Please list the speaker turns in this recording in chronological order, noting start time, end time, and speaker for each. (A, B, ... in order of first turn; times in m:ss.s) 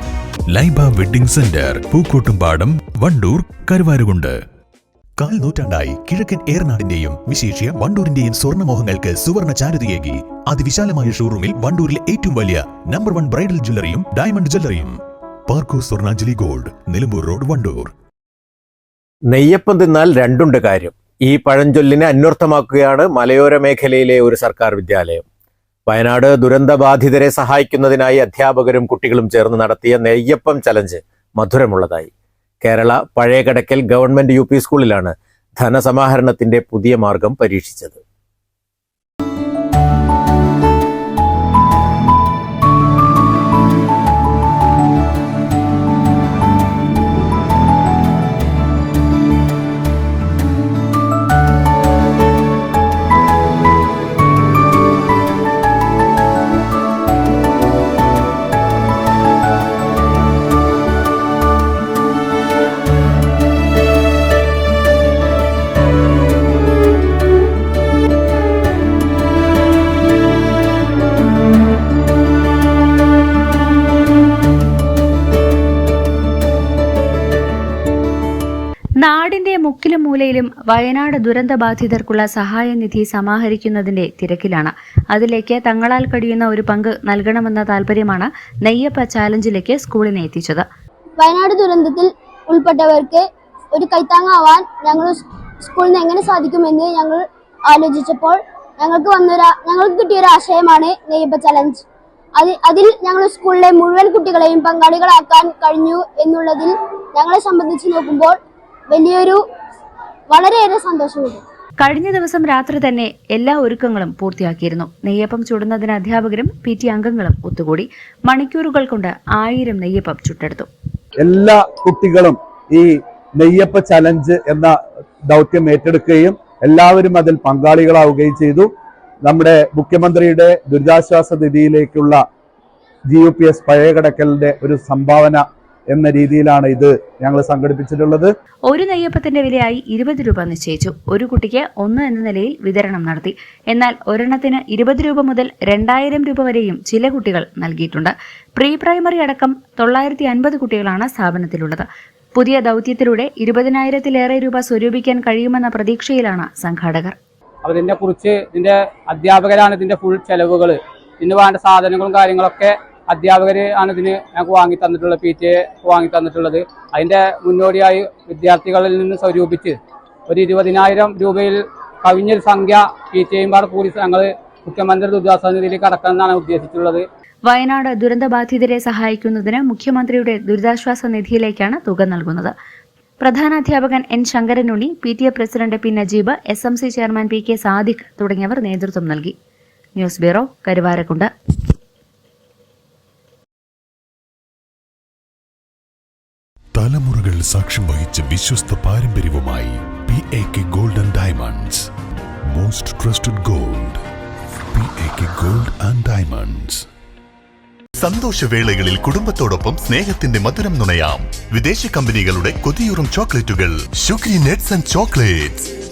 0:00.5-0:04.4 A
0:05.2-0:15.0 A
0:15.5-0:17.9 A
0:19.3-0:25.2 B
0:25.9-0:32.1 B
0:32.6-0:38.0 B
1:19.0-1:30.6 C
1:31.2-1:41.8 D
1:42.4-1:48.4 D
1:48.9-1:49.4 D
1:50.3-1:51.4 D
1:51.8-2:00.7 C
2:01.2-2:04.8 E
2:05.3-2:08.7 E
2:09.2-2:12.2 E
2:13.1-2:18.3 E
2:18.7-2:37.1 C
2:37.6-2:49.8 F
2:50.3-2:57.0 F
2:57.4-3:02.5 C
3:03.2-3:09.3 C
3:10.0-3:11.3 C
3:16.7-3:21.9 A
3:22.5-3:24.0 A
3:24.7-3:26.8 A
3:28.0-3:35.6 G